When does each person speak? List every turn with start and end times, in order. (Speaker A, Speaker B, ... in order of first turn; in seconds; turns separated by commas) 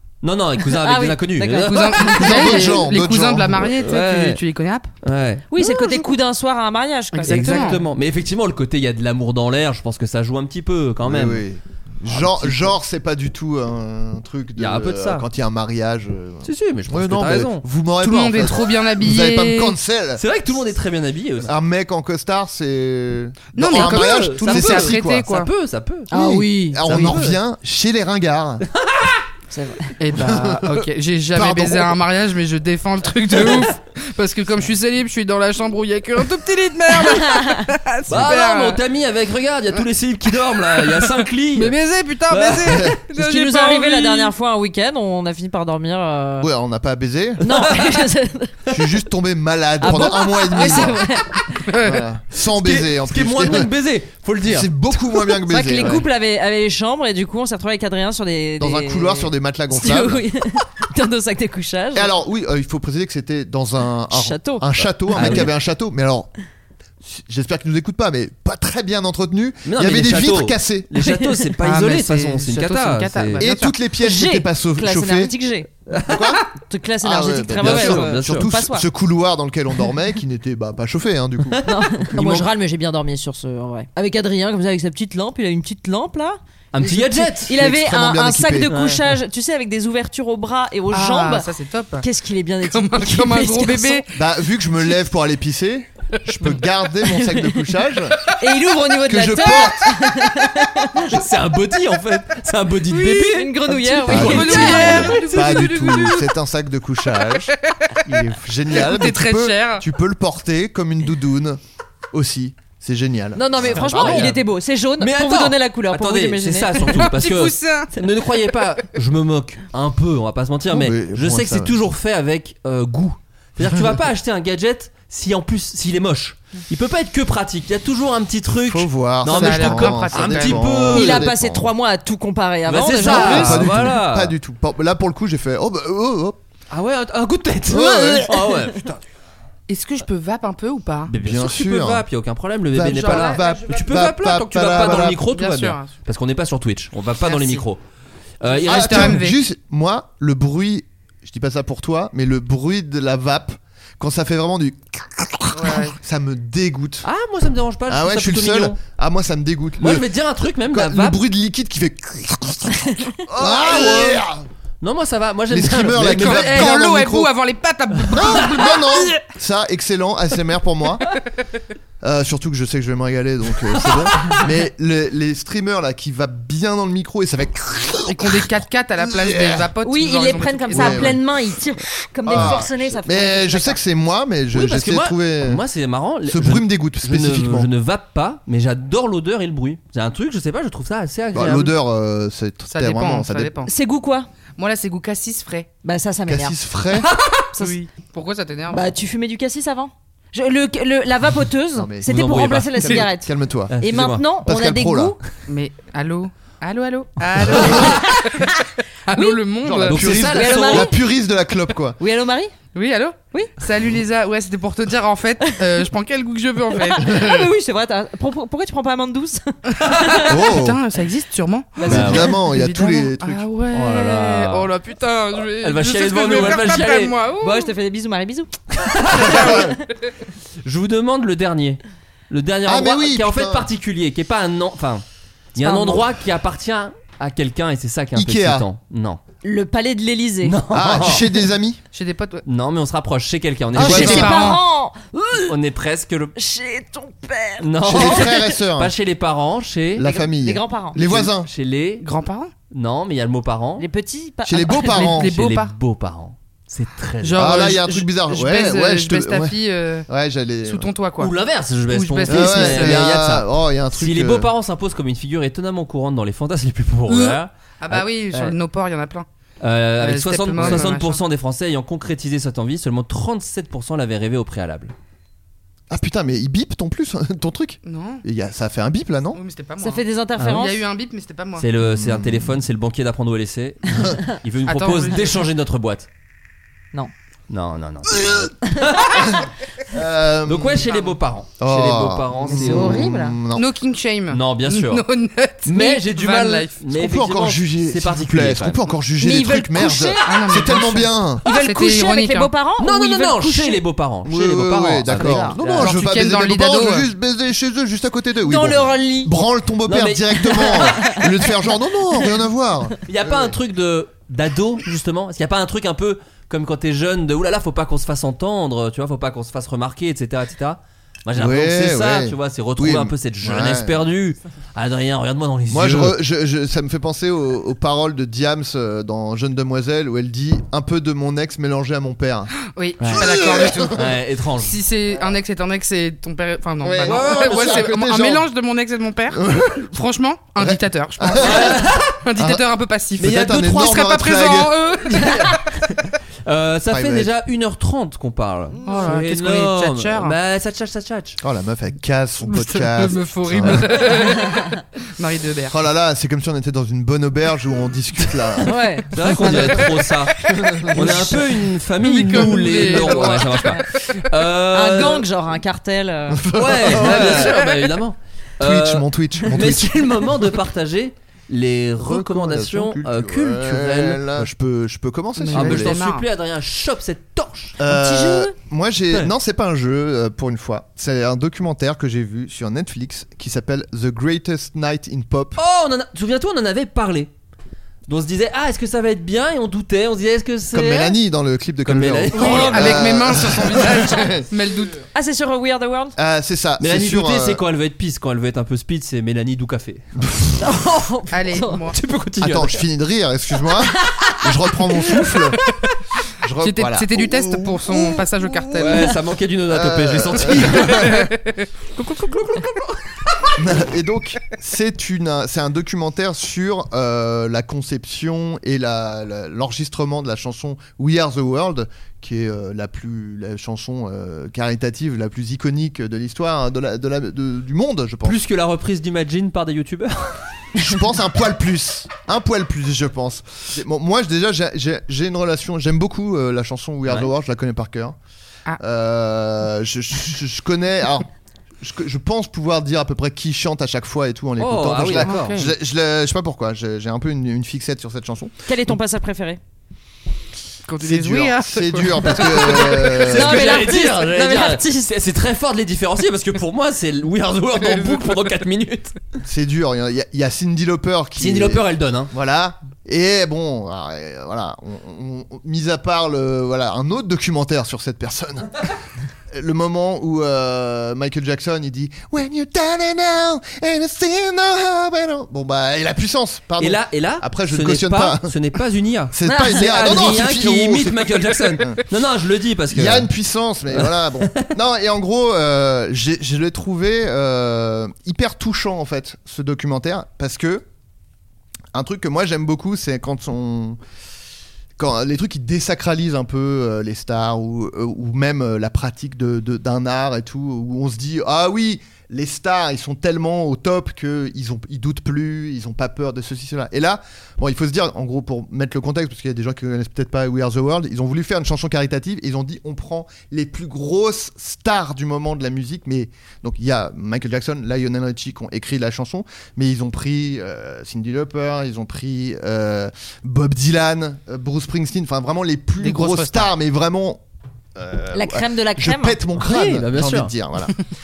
Speaker A: 0.2-2.6, Speaker B: 0.6-2.7, Speaker C: 1.6-4.9, Speaker D: 2.2-3.7, Speaker A: 3.7-4.4, Speaker A: 5.0-5.5, Speaker B: 5.5-7.8, Speaker C: 7.1-7.8, Speaker A: 7.3-11.4, Speaker D: 11.0-20.2, Speaker A: 12.1-12.7, Speaker A: 14.6-15.2, Speaker A: 16.4-17.6, Speaker C: 18.0-19.8, Speaker A: 20.2-21.5, Speaker D: 21.4-25.3, Speaker C: 23.5-25.5, Speaker A: 23.7-26.1, Speaker B: 26.1-27.1, Speaker D: 26.1-28.6, Speaker A: 26.9-27.4, Speaker A: 28.7-29.2, Speaker B: 29.5-29.9, Speaker C: 30.0-38.8, Speaker D: 30.1-32.0, Speaker A: 33.4-33.6, Speaker B: 37.1-37.5, Speaker A: 38.1-41.8, Speaker C: 40.9-44.3, Speaker A: 42.3-42.9, Speaker D: 42.7-43.0, Speaker B: 43.1-46.5, Speaker D: 46.4-47.5, Speaker B: 47.4-48.9, Speaker A: 47.4-48.0, Speaker D: 48.7-51.0, Speaker A: 49.8-50.8, Speaker B: 49.8-51.6, Speaker C: 51.7-52.0, Speaker D: 51.8-53.7, Speaker A: 52.5-54.7, Speaker D: 54.4-56.1, Speaker B: 55.5-62.1, Speaker D: 58.6-60.3, Speaker D: 61.9-66.3, Speaker B: 64.1-65.5, Speaker A: 65.1-65.5, Speaker D: 67.0-70.9, Speaker A: 69.6-73.5, Speaker B: 71.0-71.5, Speaker C: 71.6-73.8, Speaker D: 73.4-75.3, Speaker B: 74.0-75.7, Speaker A: 75.9-76.4, Speaker D: 76.0-76.4, Speaker B: 76.7-78.9, Speaker D: 77.0-82.2, Speaker A: 77.6-78.5, Speaker A: 81.5-82.5, Speaker B: 81.6-91.5, Speaker A: 86.7-87.5, Speaker D: 87.5-88.7, Speaker A: 88.7-89.1, Speaker C: 90.9-92.1, Speaker B: 92.0-94.0, Speaker C: 92.6-94.0, Speaker D: 94.1-98.2, Speaker B: 98.4-101.0, Speaker D: 99.1-100.0, Speaker A: 101.0-106.0, Speaker B: 103.0-105.1, Speaker C: 103.8-106.3, Speaker D: 104.0-107.5, Speaker C: 107.5-108.0, Speaker D: 108.0-111.6, Speaker C: 108.7-109.8, Speaker D: 112.1-114.4, Speaker B: 113.3-116.9, Speaker A: 113.7-114.4, Speaker A: 115.0-131.2, Speaker C: 116.8-117.9, Speaker D: 120.7-121.8, Speaker D: 128.6-131.7, Speaker C: 129.2-130.7, Speaker B: 130.8-133.7, Speaker A: 132.7-134.3, Speaker D: 133.0-136.4, Speaker A: 136.7-139.1, Speaker D: 137.7-138.5, Speaker C: 139.7-141.1, Speaker A: 141.1-147.8, Speaker D: 141.1-142.1, Speaker D: 142.7-145.2, Speaker C: 142.9-143.6, Speaker C: 145.2-145.9, Speaker C: 147.2-147.6, Speaker A: 148.4-149.2, Speaker C: 148.5-149.4, Speaker D: 148.7-157.1, Speaker C: 155.5-156.0, Speaker A: 157.0-158.8, Speaker D: 157.9-160.1, Speaker A: 159.8-161.2, Speaker D: 160.7-164.4, Speaker A: 163.4-164.2, Speaker A: 164.8-166.8, Speaker D: 165.5-167.3, Speaker C: 166.1-168.8, Speaker A: 168.0-168.8, Speaker D: 168.1-171.0, Speaker D: 172.0-178.5, Speaker C: 178.1-181.2, Speaker D: 179.0-179.7, Speaker B: 179.8-183.8, Speaker D: 180.7-181.2, Speaker D: 182.2-185.6, Speaker A: 184.5-191.7, Speaker D: 186.2-187.7, Speaker D: 191.3-193.5, Speaker C: 192.7-193.7, Speaker B: 193.7-194.3, Speaker C: 194.6-195.7, Speaker B: 195.8-196.6, Speaker D: 196.3-197.1, Speaker C: 197.6-198.8, Speaker B: 198.7-205.2, Speaker D: 201.7-203.7, Speaker A: 202.1-203.1, Speaker A: 203.7-204.2, Speaker D: 204.4-205.2, Speaker C: 205.5-208.5, Speaker B: 207.7-208.4, Speaker C: 209.1-210.0, Speaker B: 209.1-209.4, Speaker D: 209.6-212.0, Speaker A: 209.8-210.9, Speaker B: 210.2-211.0, Speaker B: 212.0-212.6, Speaker C: 212.7-217.3, Speaker B: 216.8-220.3, Speaker C: 219.7-227.7, Speaker D: 220.3-220.8, Speaker B: 221.8-222.3, Speaker A: 221.8-222.2, Speaker D: 221.8-223.4, Speaker A: 223.7-224.7, Speaker A: 225.6-227.1, Speaker B: 227.4-228.5, Speaker A: 228.7-229.7, Speaker D: 229.2-229.7, Speaker A: 230.6-235.0, Speaker D: 232.6-233.7, Speaker A: 235.6-239.2, Speaker B: 235.6-236.1, Speaker D: 238.1-238.7, Speaker B: 239.4-240.6, Speaker A: 240.4-241.2, Speaker D: 240.7-241.8, Speaker C: 241.9-242.4, Speaker A: 242.4-244.5, Speaker C: 243.8-244.6, Speaker D: 243.8-244.5, Speaker B: 243.8-245.6, Speaker A: 245.4-246.3, Speaker B: 246.3-248.5, Speaker A: 247.6-250.1, Speaker D: 247.8-248.9, Speaker D: 249.9-251.5, Speaker B: 250.0-250.9, Speaker A: 250.9-252.1, Speaker C: 252.0-252.5, Speaker A: 252.7-253.8, Speaker B: 253.8-255.1, Speaker D: 254.4-255.3, Speaker C: 254.9-255.7, Speaker A: 255.2-257.8, Speaker C: 257.2-260.1, Speaker D: 257.4-259.6, Speaker D: 260.1-260.9, Speaker C: 260.6-261.3, Speaker A: 261.2-268.6, Speaker C: 261.9-263.0, Speaker D: 262.3-264.5, Speaker C: 267.1-269.2, Speaker A: 269.6-274.9, Speaker C: 270.0-271.2, Speaker D: 270.6-270.9, Speaker D: 275.9-279.4, Speaker C: 277.8-278.2, Speaker C: 279.3-281.7, Speaker B: 279.8-280.8, Speaker A: 280.4-280.7, Speaker A: 281.6-286.1, Speaker D: 281.8-282.6, Speaker C: 284.6-285.5, Speaker A: 287.5-289.4, Speaker D: 288.1-288.5, Speaker D: 289.1-290.9, Speaker A: 290.4-293.0, Speaker C: 290.9-291.2, Speaker D: 291.6-293.6, Speaker B: 292.5-293.4, Speaker C: 293.5-296.8, Speaker A: 294.3-295.1, Speaker A: 295.6-298.8, Speaker D: 296.9-301.4, Speaker B: 299.2-300.4, Speaker C: 300.2-302.5, Speaker B: 301.4-303.8, Speaker A: 302.8-306.0, Speaker D: 304.2-313.6, Speaker B: 305.1-305.6, Speaker C: 305.7-307.1, Speaker B: 308.4-309.3, Speaker A: 309.9-311.2, Speaker B: 310.7-311.1, Speaker A: 313.1-326.2, Speaker D: 321.3-324.0, Speaker D: 325.7-334.1, Speaker C: 332.7-345.6, Speaker A: 333.0-333.3, Speaker A: 333.9-334.8, Speaker D: 336.8-338.4, Speaker A: 337.0-337.9, Speaker D: 339.3-339.9, Speaker D: 340.6-342.6, Speaker A: 341.4-342.2, Speaker D: 343.2-344.8, Speaker A: 343.2-344.1, Speaker A: 345.1-351.4, Speaker D: 346.9-347.3, Speaker C: 348.9-350.4, Speaker D: 351.4-353.9, Speaker C: 352.4-355.8, Speaker D: 355.7-358.8, Speaker B: 358.6-359.9, Speaker A: 359.1-365.2, Speaker B: 360.9-361.4, Speaker C: 361.9-363.8, Speaker B: 363.5-363.8, Speaker B: 364.7-366.4, Speaker D: 366.3-367.5, Speaker A: 366.5-374.5, Speaker C: 367.2-367.5, Speaker D: 368.6-370.3, Speaker D: 372.0-376.0, Speaker C: 375.4-376.2, Speaker A: 375.5-377.8, Speaker D: 377.8-385.6, Speaker B: 377.9-378.5, Speaker A: 385.6-387.3, Speaker A: 388.1-391.2, Speaker D: 390.7-394.4, Speaker A: 391.9-393.2, Speaker C: 392.3-395.0, Speaker B: 395.1-396.1, Speaker D: 396.2-397.6, Speaker A: 396.8-400.1, Speaker D: 400.2-400.6, Speaker B: 400.6-401.9, Speaker C: 401.3-402.0, Speaker A: 401.9-402.8, Speaker D: 402.4-405.6, Speaker D: 406.4-408.3, Speaker C: 406.6-409.1, Speaker A: 408.7-411.3, Speaker D: 409.7-411.2, Speaker C: 411.1-411.6, Speaker A: 411.9-413.5, Speaker D: 413.6-428.4, Speaker A: 428.2-430.4, Speaker D: 430.7-438.1, Speaker D: 438.8-441.3, Speaker D: 441.8-448.5, Speaker A: 444.6-445.6, Speaker C: 445.2-445.7, Speaker B: 448.7-449.6, Speaker C: 450.9-453.0, Speaker D: 451.0-453.8, Speaker A: 452.7-459.1, Speaker B: 453.2-455.1, Speaker D: 459.4-468.9, Speaker A: 461.4-462.3, Speaker D: 469.5-478.5, Speaker A: 476.8-483.3, Speaker D: 479.3-482.0, Speaker B: 479.4-479.8, Speaker D: 482.9-490.9, Speaker A: 483.9-484.7, Speaker D: 491.9-494.0, Speaker D: 495.0-527.4, Speaker C: 526.0-526.7, Speaker D: 528.0-531.0, Speaker B: 528.3-529.4, Speaker A: 529.6-530.5